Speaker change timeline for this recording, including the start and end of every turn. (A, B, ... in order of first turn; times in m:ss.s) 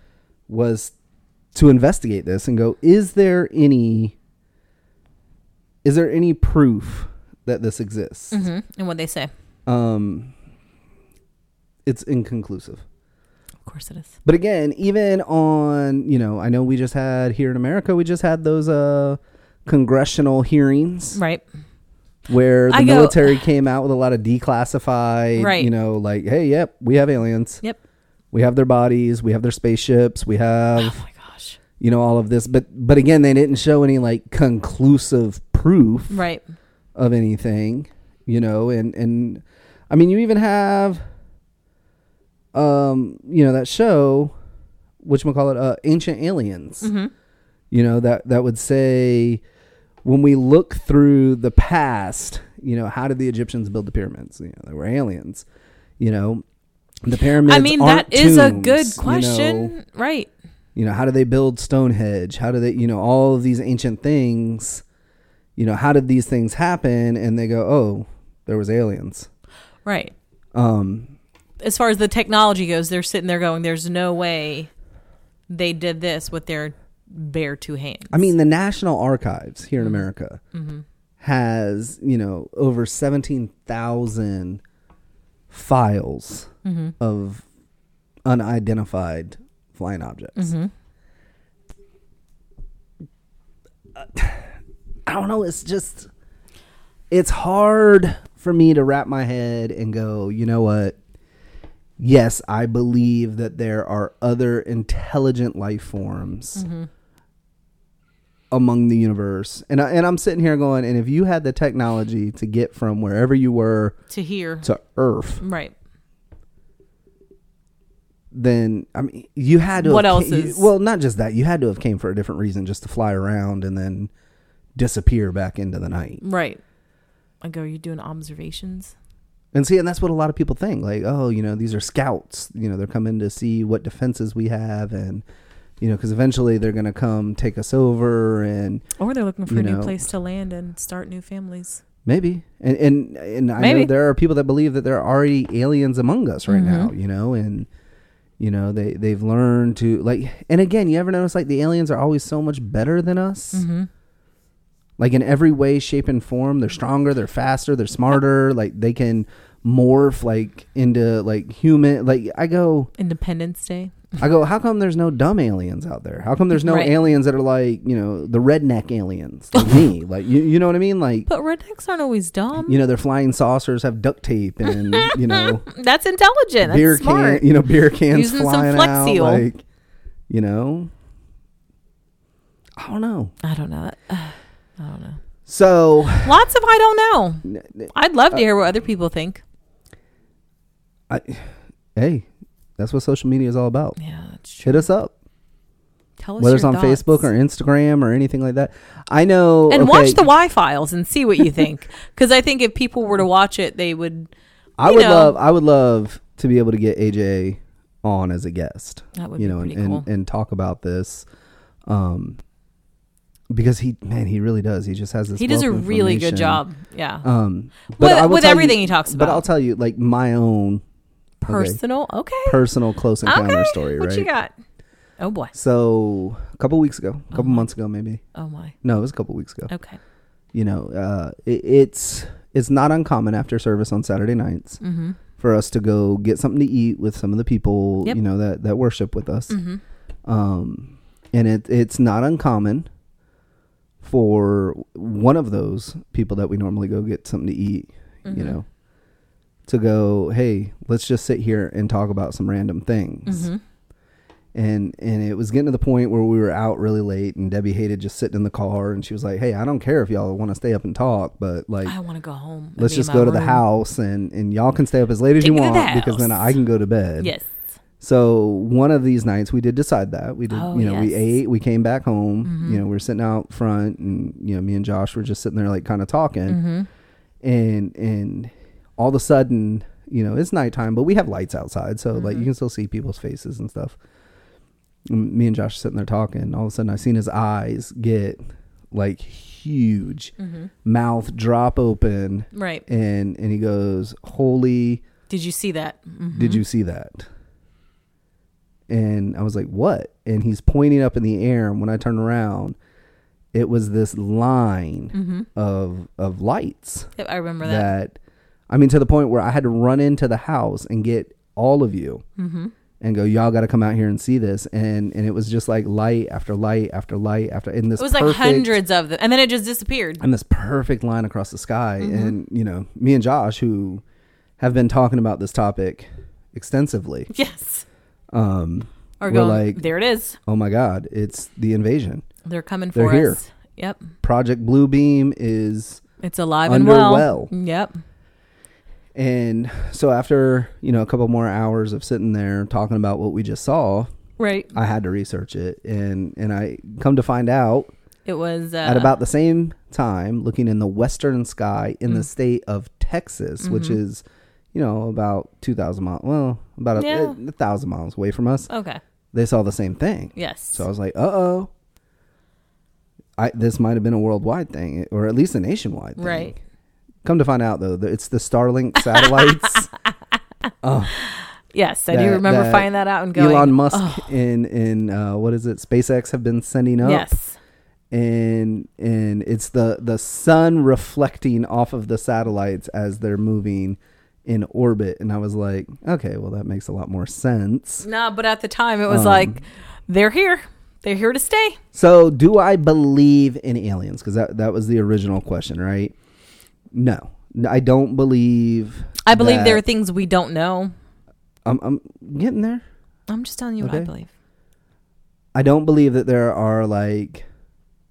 0:00.5-0:00.9 A
0:01.5-0:04.2 A
0:05.8-0:08.4 A
0:08.3-0:09.3 B
0:09.7-0:10.3 A
0:11.9-0:12.8 A
0:13.6-0:14.2 B
0:14.2-0:21.2 A
0:21.2-0:21.4 B
0:22.3-0:27.6 A
0:22.7-0:23.4 B
0:25.4-0:25.7 B
0:28.3-0:31.0 A
0:30.8-0:31.6 B
0:31.8-0:36.2 A
0:36.1-0:36.4 B
0:37.0-0:41.0 A
0:42.5-0:44.3 A
0:45.0-0:46.9 A
0:46.8-0:47.1 B
0:47.7-0:49.4 A
0:50.0-0:55.5 A
0:56.0-0:56.4 A
0:57.0-0:59.8 A
0:57.4-1:00.3 B
1:00.8-1:04.8 A
1:05.6-1:09.3 A
1:09.8-1:10.1 B
1:10.5-1:11.1 A
1:11.6-1:14.7 B
1:15.5-1:18.3 B
1:18.1-1:20.4 A
1:19.8-1:20.8 B
1:21.2-1:24.6 A
1:25.5-1:27.4 A
1:26.6-1:26.9 B
1:28.2-1:30.5 A
1:30.4-1:30.7 B
1:34.0-1:34.5 A
1:35.1-1:36.1 A
1:37.1-1:41.0 A
1:42.0-1:46.7 A
1:46.6-1:46.9 B
1:48.5-1:54.0 A
1:54.1-1:54.7 B
1:54.6-1:55.4 A
1:55.4-1:55.7 B
1:58.3-2:04.1 A
1:59.8-2:00.7 B
2:04.8-2:06.2 A
2:06.2-2:06.6 B
2:07.4-2:09.0 B
2:09.5-2:15.2 A
2:15.8-2:18.8 A
2:19.0-2:21.8 B
2:19.5-2:20.1 A
2:22.1-2:27.7 A
2:23.6-2:23.9 B
2:26.5-2:26.9 B
2:28.4-2:33.6 A
2:33.5-2:33.9 B
2:35.0-2:42.9 A
2:43.0-2:44.0 B
2:44.2-2:51.3 A
2:46.6-2:47.0 B
2:49.5-2:49.8 B
2:51.3-2:52.8 B
2:52.6-2:55.7 A
2:54.7-2:57.4 B
2:56.6-2:59.6 A
2:58.1-2:59.5 B
3:00.3-3:00.9 A
3:02.8-3:03.3 A
3:03.4-3:05.2 B
3:05.5-3:06.4 A
3:06.2-3:09.4 B
3:07.5-3:08.4 A
3:11.1-3:12.3 A
3:12.8-3:14.0 A
3:14.0-3:14.8 B
3:14.6-3:15.1 A
3:16.2-3:17.3 B
3:16.4-3:20.3 A
3:19.7-3:24.3 B
3:24.8-3:31.3 A
3:24.8-3:25.4 B
3:29.2-3:30.1 B
3:31.9-3:32.4 A
3:33.5-3:36.6 A
3:35.4-3:37.3 B
3:37.2-3:40.8 A
3:38.0-3:39.5 B
3:41.4-3:42.6 B
3:41.4-3:41.8 A
3:42.5-3:44.3 A
3:43.2-3:44.5 B
3:45.2-3:45.5 B
3:45.5-3:48.2 A
3:47.3-3:47.7 B
3:48.4-3:48.8 B
3:48.8-3:49.7 A
3:49.7-3:50.0 B
3:50.5-3:54.8 A
3:54.8-3:55.2 B
3:55.4-3:59.6 A
3:59.5-3:59.8 B
4:00.3-4:02.9 A
4:04.0-4:08.6 A
4:08.2-4:08.6 B
4:09.7-4:13.5 A
4:13.3-4:13.6 B
4:14.6-4:22.0 A
4:21.8-4:23.6 B
4:22.8-4:27.3 A
4:25.4-4:26.6 B
4:27.2-4:27.5 B
4:28.0-4:36.6 A
4:30.5-4:31.4 B
4:32.4-4:32.8 B
4:36.5-4:36.9 B
4:37.4-4:44.0 A
4:42.1-4:42.5 B
4:45.1-4:48.4 A
4:48.9-4:50.3 A
4:50.4-4:50.7 B
4:50.8-4:55.0 A
4:52.5-4:52.8 B
4:55.3-4:56.6 B
4:56.4-4:57.3 A
4:58.9-5:02.8 A
5:03.5-5:07.1 A
5:05.1-5:05.5 B
5:07.2-5:07.9 B
5:07.6-5:08.2 A
5:08.7-5:12.2 A
5:12.4-5:12.7 B
5:13.0-5:18.8 A
5:18.0-5:20.2 B
5:20.2-5:24.0 A
5:22.0-5:22.4 B
5:24.6-5:27.3 A
5:27.3-5:27.8 B
5:28.3-5:29.8 A
5:29.2-5:30.4 B
5:30.5-5:32.2 A
5:32.4-5:34.1 B
5:32.9-5:33.4 A
5:34.2-5:36.0 A
5:36.2-5:38.0 B
5:36.7-5:37.5 A
5:39.2-5:44.1 A
5:44.4-5:44.7 B
5:44.7-5:47.9 A
5:48.3-5:49.2 B
5:48.8-5:58.7 A
5:53.6-5:54.0 B
5:57.0-5:57.4 B
5:58.7-5:59.0 B
5:59.3-6:01.7 A
6:00.4-6:00.9 B
6:03.4-6:06.6 A
6:06.2-6:06.5 B
6:07.2-6:09.9 A
6:09.0-6:09.9 B
6:10.8-6:11.2 A
6:11.2-6:14.3 B
6:12.1-6:17.4 A
6:17.0-6:17.6 B
6:18.1-6:28.1 A
6:28.0-6:31.8 B
6:29.1-6:29.6 A
6:31.9-6:36.1 A
6:36.9-6:39.8 A
6:39.2-6:40.9 B
6:41.6-6:42.8 A
6:43.3-6:44.3 B
6:43.8-6:44.1 A
6:45.6-6:47.5 A